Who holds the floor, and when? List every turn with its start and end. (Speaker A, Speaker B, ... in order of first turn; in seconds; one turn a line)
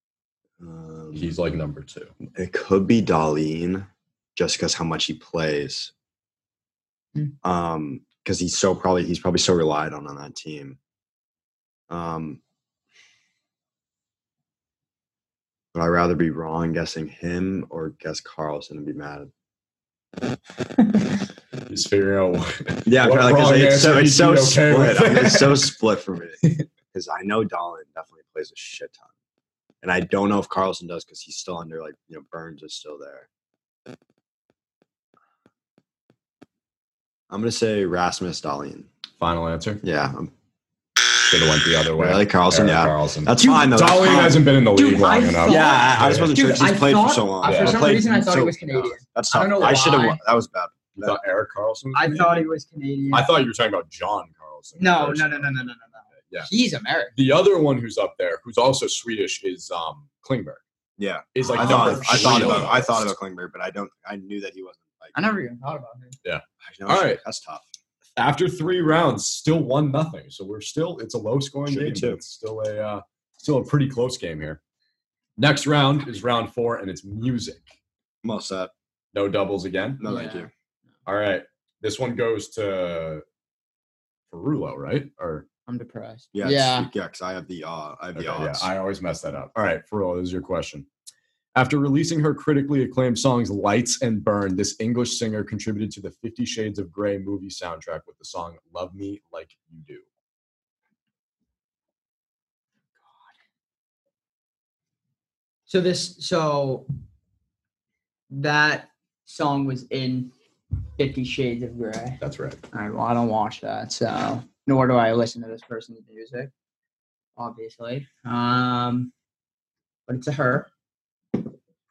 Speaker A: 0.6-1.3
Speaker B: 1.1-2.1
Speaker A: 2.3-5.9
Speaker A: 7.4-10.8
Speaker A: 11.9-12.4
Speaker A: 15.7-19.3
Speaker B: 21.7-25.7
Speaker A: 22.9-29.1
Speaker A: 29.8-33.3
Speaker A: 37.3-38.9
Speaker B: 39.2-39.8
Speaker A: 39.8-40.3
Speaker B: 41.2-46.4
Speaker A: 42.0-44.4
Speaker C: 43.4-50.2
Speaker A: 45.5-51.2
Speaker B: 47.4-48.1
Speaker B: 51.0-52.5
Speaker C: 51.9-53.3
Speaker B: 53.1-56.5
Speaker C: 54.8-57.1
Speaker B: 57.1-60.6
Speaker A: 61.0-65.1
Speaker B: 61.3-63.1
Speaker C: 61.4-62.8
Speaker C: 65.1-66.2
Speaker B: 66.2-67.2
Speaker A: 66.6-67.6
Speaker B: 68.2-74.6
Speaker A: 71.7-72.2
Speaker B: 75.4-77.7
Speaker A: 78.2-78.7
Speaker B: 79.1-80.0
Speaker A: 80.0-80.5
Speaker C: 80.0-80.5
Speaker B: 81.0-83.2
Speaker B: 84.3-85.5
Speaker C: 85.7-86.9
Speaker A: 86.3-88.7
Speaker B: 88.1-90.9
Speaker B: 91.5-100.0
Speaker C: 105.7-106.9
Speaker C: 108.3-110.3
Speaker C: 111.0-116.5
Speaker B: 112.2-112.6
Speaker C: 117.4-119.1
Speaker C: 120.1-120.7